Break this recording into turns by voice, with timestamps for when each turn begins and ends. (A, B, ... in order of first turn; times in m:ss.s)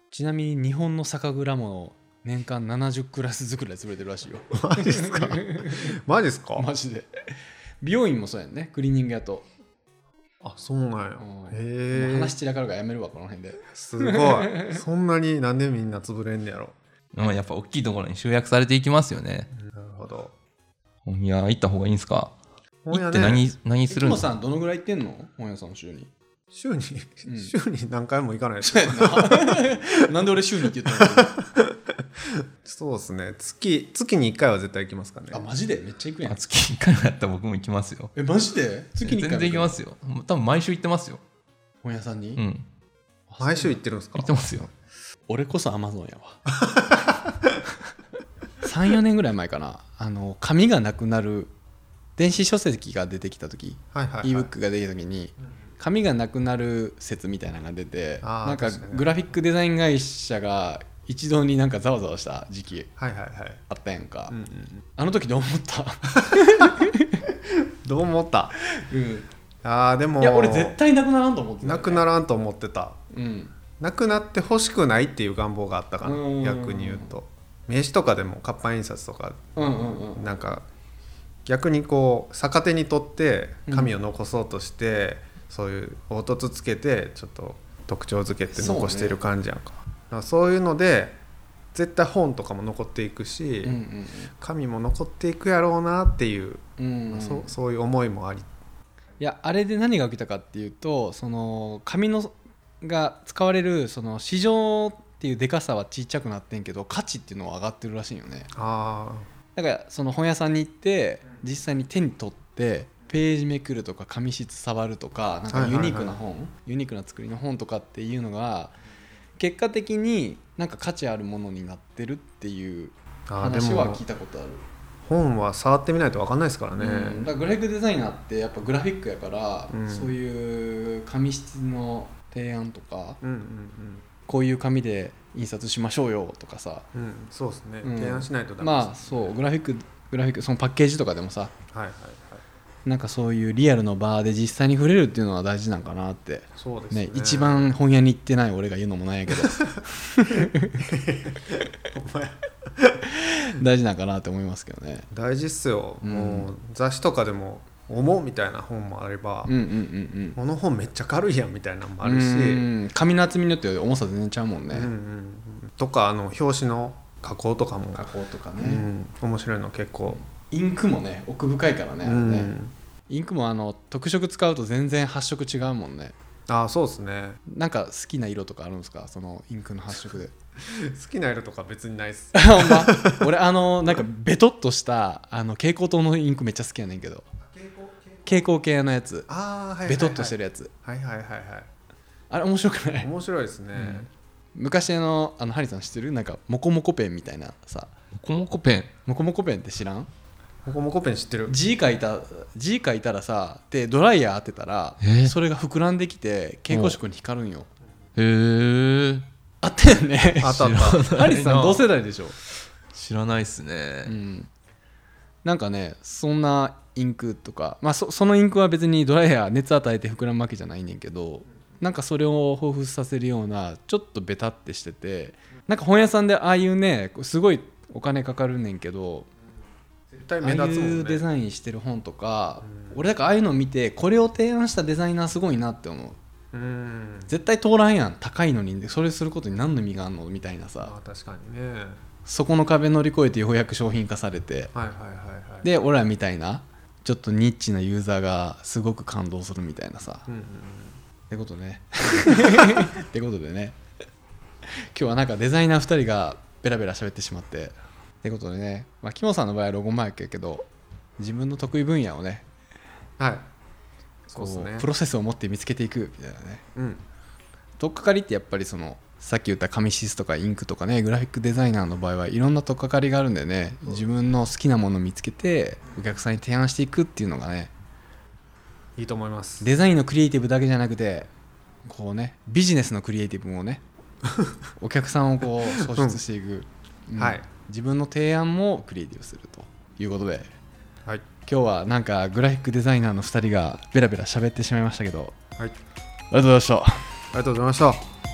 0:00.1-0:06.0 A
0:04.5-0:06.7 B
0:06.6-0:07.1 A
0:07.8-0:09.5 A
0:10.4-0:12.4 B
0:11.2-0:14.5 A
0:13.7-0:16.8 B
0:17.1-0:19.5 C
0:19.6-0:20.3 B
0:21.1-0:22.3 C
0:22.8-0:23.4 B
0:22.9-0:24.2 C
0:23.9-0:26.1 A
0:26.5-0:30.0 B
0:27.3-0:27.5 A
0:28.6-0:31.4 A
0:31.0-0:31.7 B
0:32.6-0:35.4 B
0:35.3-0:36.4 A
0:36.3-0:38.1 C
0:38.2-0:39.8 A
0:39.0-0:41.2 C
0:41.8-0:42.4 A
0:42.4-0:42.6 C
0:43.3-0:43.8 A
0:43.4-0:44.4 B
0:44.2-0:44.7 C
0:45.3-0:46.4 A
0:46.6-0:47.2 B
0:48.6-0:51.5 A
0:52.2-1:02.9 A
0:53.9-0:54.5 B
0:58.2-0:59.1 B
1:03.0-1:03.6 B
1:03.7-1:04.4 A
1:04.3-1:04.8 B
1:05.0-1:07.3 A
1:06.2-1:06.8 B
1:07.7-1:08.6 B
1:08.8-1:09.3 A
1:09.6-1:10.8 B
1:10.2-1:12.1 A
1:11.6-1:13.0 B
1:13.1-1:13.6 A
1:13.8-1:20.7 B
1:16.0-1:17.2 A
1:19.6-1:20.2 A
1:21.4-1:31.2 B
1:23.7-1:23.9 A
1:28.5-1:29.2 A
1:31.7-1:33.8 B
1:33.6-1:34.3 A
1:34.4-1:38.5 B
1:36.8-1:37.5 A
1:39.2-1:48.5 A
1:48.5-1:49.3 B
1:49.6-1:58.8 A
1:55.5-1:56.2 B
1:59.4-2:04.6 A
2:03.3-2:04.0 B
2:05.0-2:07.3 B
2:06.8-2:13.2 A
2:09.7-2:10.2 B
2:13.2-2:14.1 B
2:14.3-2:16.9 A
2:16.9-2:19.4 B
2:17.8-2:21.5 A
2:21.7-2:22.4 B
2:22.8-2:30.8 A
2:26.6-2:27.7 B
2:29.5-2:29.8 B
2:30.4-2:33.0 B
2:33.2-2:35.1 A
2:35.1-2:39.5 B
2:36.0-2:36.5 A
2:39.5-2:40.4 A
2:40.4-2:42.7 B
2:42.0-2:44.9 A
2:44.7-2:50.2 B
2:47.9-2:48.9 A
2:50.1-2:52.5 A
2:52.0-2:52.7 B
2:53.1-2:56.2 A
2:56.5-2:57.4 B
2:57.5-3:00.3 A
3:00.6-3:03.3 B
3:02.3-3:07.3 A
3:08.2-3:09.3 A
3:09.3-3:11.7 B
3:09.9-3:10.7 A
3:12.3-3:13.1 A
3:13.0-3:14.1 B
3:13.8-3:17.9 A
3:18.2-3:18.9 C
3:19.1-3:20.1 A
3:20.6-3:21.6 B
3:21.5-3:27.7 A
3:25.0-3:25.3 C
3:26.7-3:27.0 C
3:28.2-3:29.3 C
3:29.6-3:32.4 A
3:30.4-3:31.1 B
3:30.4-3:31.9 C
3:32.9-3:34.1 C
3:34.0-3:34.5 A
3:35.4-3:49.3 A
3:50.1-3:51.3 B
3:50.4-3:56.2 A
3:56.5-3:57.3 B
3:57.3-4:00.9 A
4:00.8-4:02.0 B
4:02.2-4:04.7 A
4:04.7-4:05.7 B
4:05.6-4:10.3 A
4:10.3-4:11.0 B
4:11.3-4:13.8 A
4:12.2-4:12.8 B
4:14.9-4:20.7 A
4:21.2-4:22.5 A
4:23.2-4:23.5 B
4:24.3-4:24.9 B
4:24.4-4:26.6 A
4:26.8-4:27.0 B
4:27.8-4:37.7 A
4:39.0-4:39.7 B
4:39.6-4:41.3 A
4:41.8-4:43.8 A
4:44.8-4:50.5 A
4:45.8-4:46.2 B
4:47.2-4:47.5 B
4:51.4-4:55.4 A
4:56.3-4:57.0 A
4:57.3-4:58.0 B